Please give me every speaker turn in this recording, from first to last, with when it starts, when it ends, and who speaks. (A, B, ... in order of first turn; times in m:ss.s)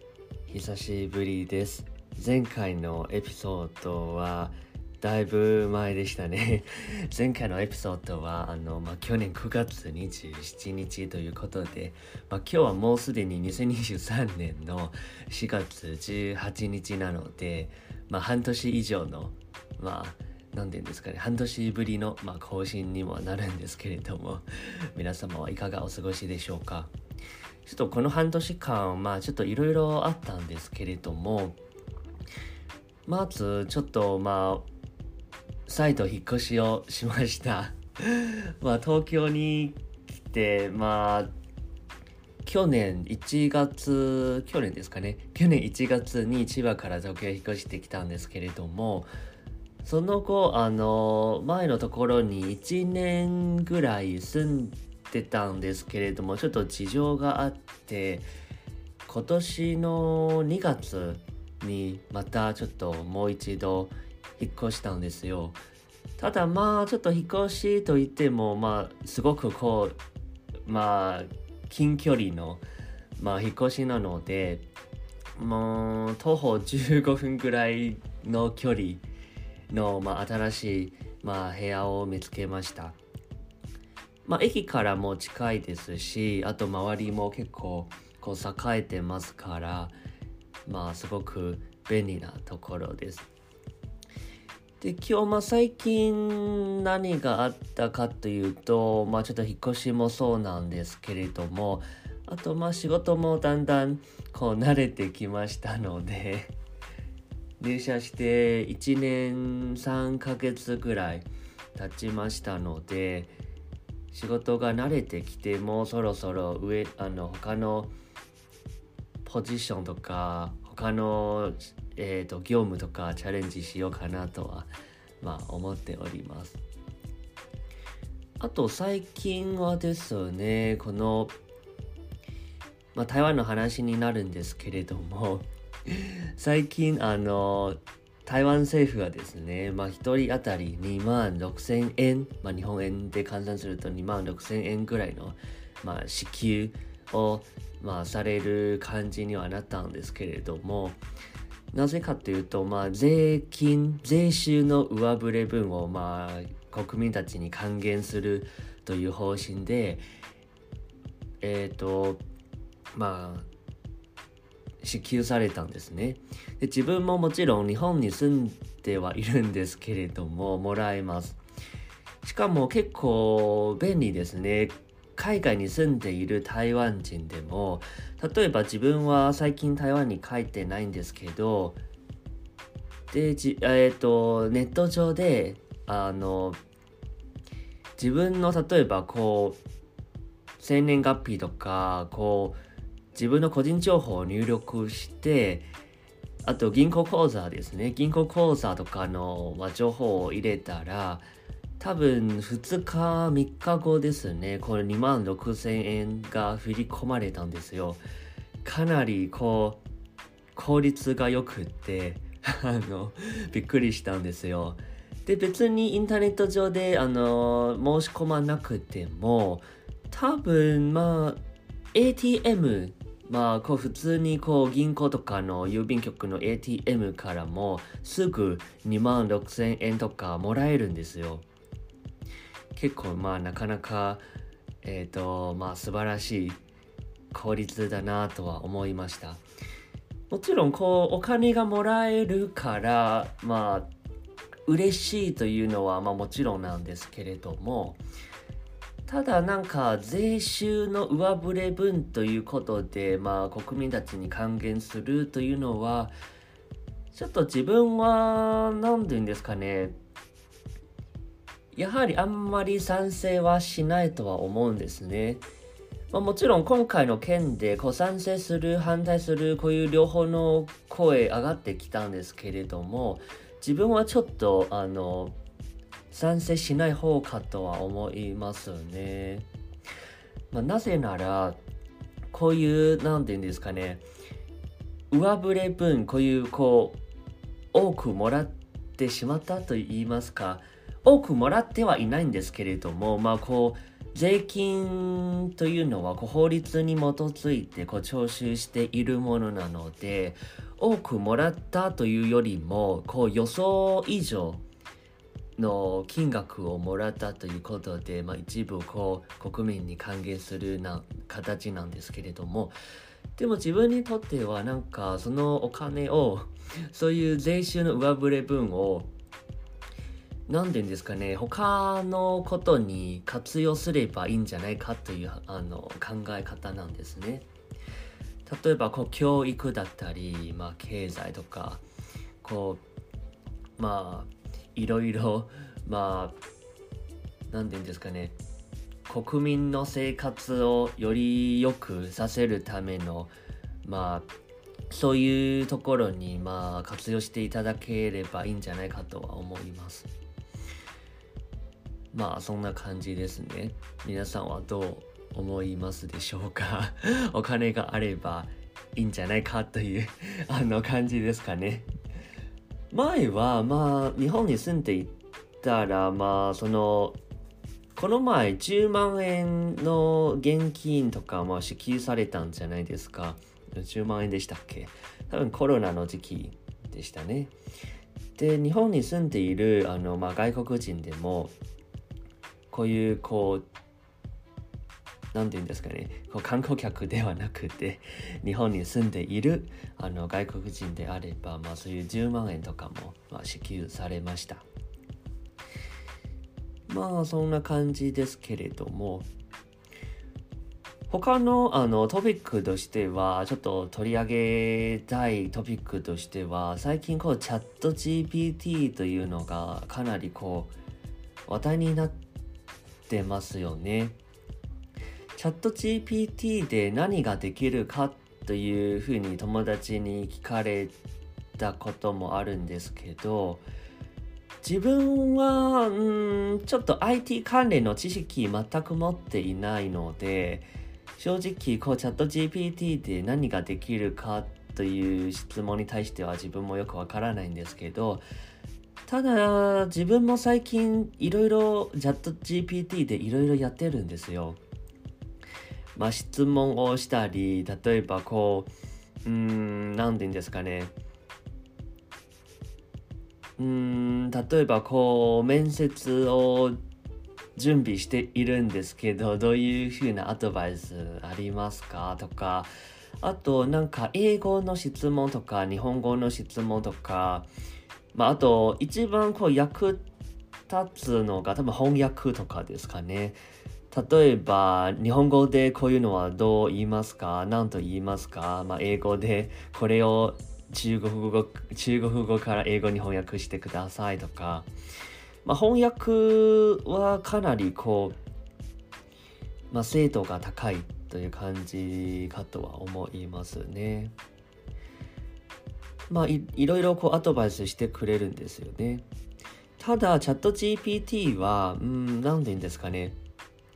0:00.5-0:26.9 A
0:27.6-0:31.6 A
0:33.0-0:34.7 A
0:35.7-0:41.3 A
0:42.4-0:49.1 A
0:49.8-0:58.2 A
0:59.1-1:05.6 A
1:06.2-1:10.0 A
1:10.7-1:12.6 A
1:13.2-1:14.6 A
1:15.4-1:19.0 A
1:19.7-1:23.0 A
1:24.2-1:30.0 A
1:30.7-1:33.3 A
1:34.8-1:46.6 A
1:47.6-1:53.3 A
1:54.1-1:57.9 A
1:59.2-2:06.6 A
2:08.4-2:11.3 A
2:12.9-2:31.0 A
2:31.7-2:40.0 A
2:41.4-2:42.2 A
2:42.9-2:43.5 A
2:44.8-2:51.4 A
2:52.2-3:01.8 A
3:03.1-3:06.6 A
3:08.0-3:09.6 A
3:10.6-3:12.6 A
3:13.1-3:15.7 A
3:16.4-3:21.3 A
3:21.8-3:28.0 A
3:28.6-3:29.8 A
3:30.5-3:41.4 A
3:41.9-3:51.4 A
3:52.7-3:54.2 A
3:54.8-3:56.6 A
3:57.3-3:59.4 A
4:00.3-4:03.9 A
4:04.7-4:08.0 A
4:09.1-4:16.1 A
4:17.1-4:20.0 A
4:21.7-4:25.4 A
4:26.1-4:35.4 A
4:36.1-4:39.5 A
4:40.5-4:41.6 A
4:42.3-4:44.0 A
4:45.1-4:47.0 A
4:47.7-5:04.6 A
5:05.6-5:12.8 A
5:13.4-5:19.1 A
5:20.5-5:27.4 A
5:28.4-5:31.8 A
5:32.4-5:32.8 A
5:33.8-5:36.4 A
5:37.5-5:38.4 A
5:39.1-5:43.3 A
5:43.8-5:44.3 A
5:44.9-5:50.1 A
5:52.1-6:01.9 A
6:02.9-6:07.2 A
6:07.9-6:17.5 A
6:18.4-6:21.5 A
6:22.7-6:23.6 A
6:25.3-6:34.6 A
6:36.9-6:39.3 A
6:41.1-6:50.7 A
6:51.4-6:52.2 A
6:53.1-6:54.2 A
6:55.4-7:00.9 A
7:01.6-7:03.6 A
7:04.6-7:18.2 A
7:19.1-7:24.6 A
7:25.9-7:28.7 A
7:29.2-7:30.9 A
7:33.6-7:36.8 A
7:37.6-7:42.7 A
7:43.2-7:47.5 A
7:48.1-7:50.1 A
7:50.7-7:53.4 A
7:53.9-8:04.7 A
8:05.4-8:08.2 A
8:09.7-8:14.1 A
8:16.1-8:19.0 A
8:19.8-8:23.2 A